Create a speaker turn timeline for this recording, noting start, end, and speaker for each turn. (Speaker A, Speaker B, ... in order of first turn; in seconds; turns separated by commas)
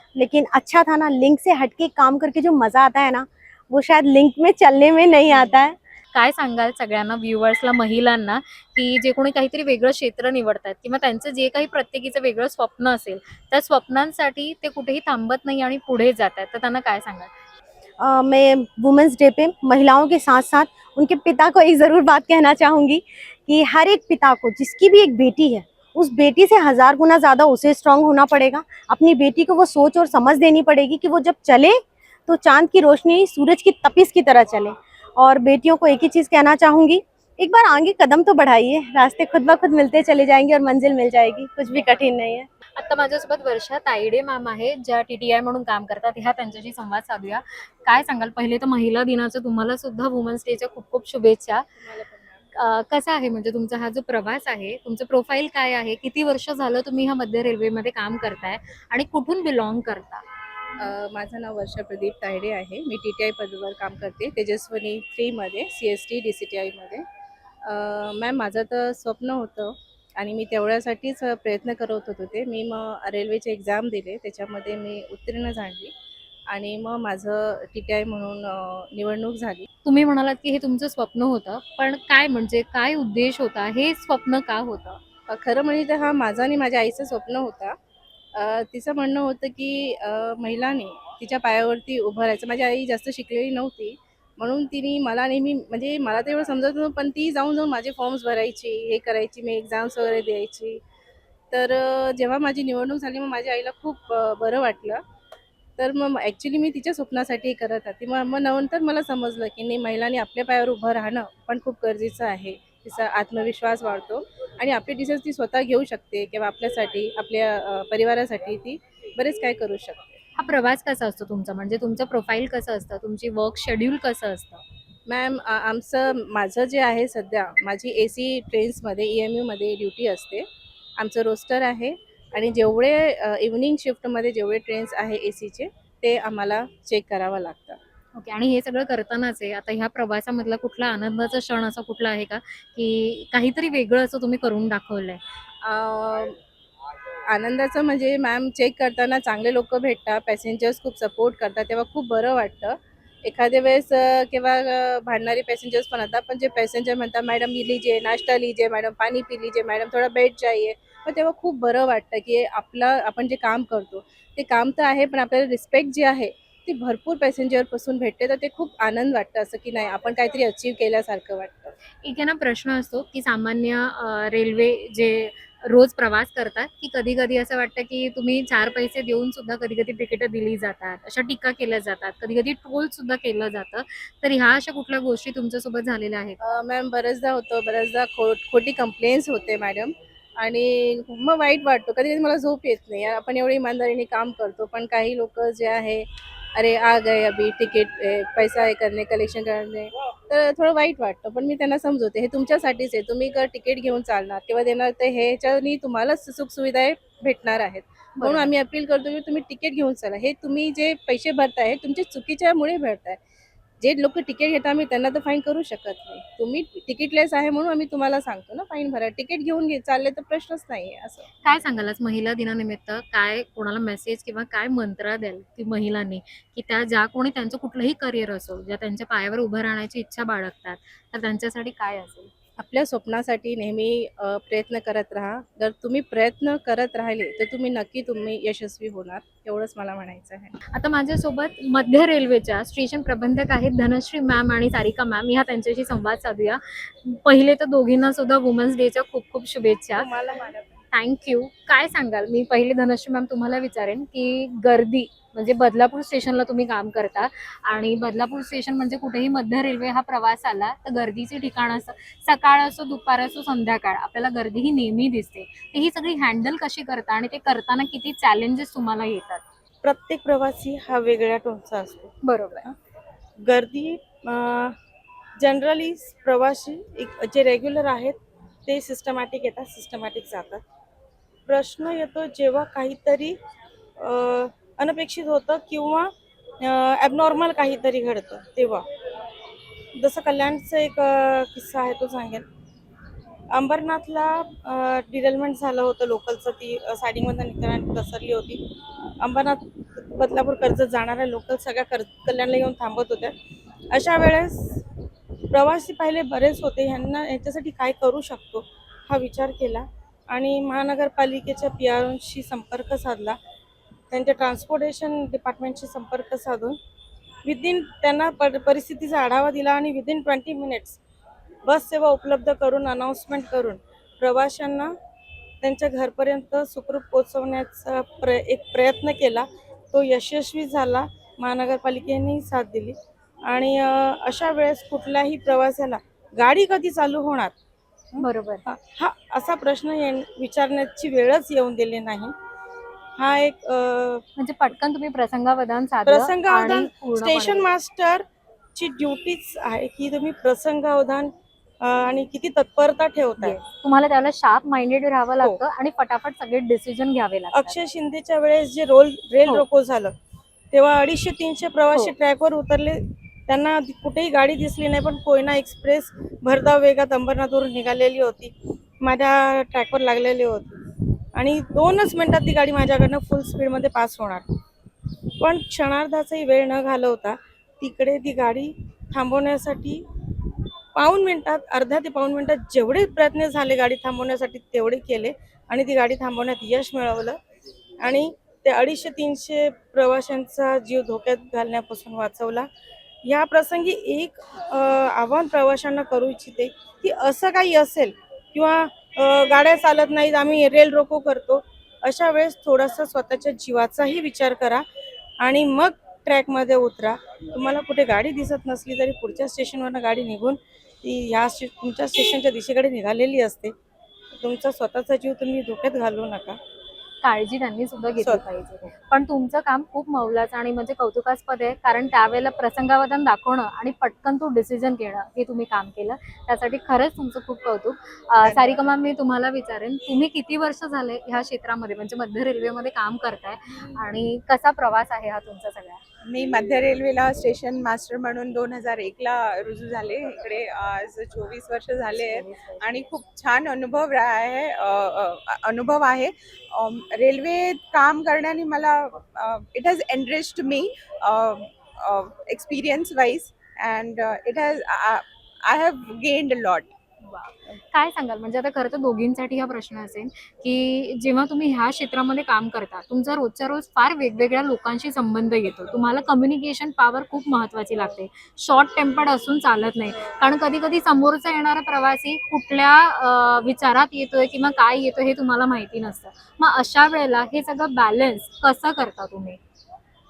Speaker A: 0.1-5.7, Speaker B: 5.3-5.6, Speaker B: 6.1-17.3, Speaker A: 18.0-42.5, Speaker B: 42.7-51.6, Speaker B: 52.5-60.2, Speaker C: 60.8-67.0, Speaker C: 67.6-75.9, Speaker C: 76.5-79.7, Speaker B: 79.8-85.0, Speaker C: 85.3-87.8, Speaker C: 88.3-100.8, Speaker C: 101.5-105.0, Speaker C: 105.8-120.2, Speaker B: 120.4-124.6, Speaker C: 125.1-130.4, Speaker C: 131.0-137.8, Speaker B: 138.1-145.2, Speaker C: 145.6-146.4, Speaker C: 147.3-171.7, Speaker B: 172.0-186.4, Speaker C: 186.4-213.2, Speaker B: 208.2-208.5, Speaker C: 213.8-221.3, Speaker B: 221.4-232.3, Speaker C: 232.6-240.6, Speaker B: 240.7-250.1, Speaker D: 249.9-250.7, Speaker B: 250.9-269.4, Speaker D: 269.8-272.1, Speaker B: 272.2-272.7, Speaker D: 273.4-274.8, Speaker D: 275.4-280.6, Speaker D: 281.4-283.4, Speaker D: 283.9-288.9, Speaker D: 289.9-292.5, Speaker D: 293.5-298.6, Speaker D: 299.2-303.3, Speaker D: 303.9-304.8, Speaker D: 305.5-313.4, Speaker D: 314.1-316.8, Speaker D: 317.4-321.0, Speaker D: 321.6-324.9, Speaker D: 325.6-337.5, Speaker D: 338.1-342.3, Speaker B: 338.2-338.6, Speaker D: 343.2-344.2, Speaker B: 344.4-347.6, Speaker D: 346.1-353.6, Speaker B: 353.4-357.8, Speaker D: 357.5-360.1, Speaker D: 360.7-370.8, Speaker D: 371.3-374.5, Speaker D: 375.4-380.0, Speaker D: 380.9-387.4, Speaker D: 388.0-392.7, Speaker D: 393.2-404.8, Speaker D: 405.4-413.7, Speaker D: 414.3-416.6, Speaker B: 417.2-436.0, Speaker D: 418.2-418.4, Speaker E: 436.2-456.9, Speaker B: 442.1-442.8, Speaker B: 457.2-479.6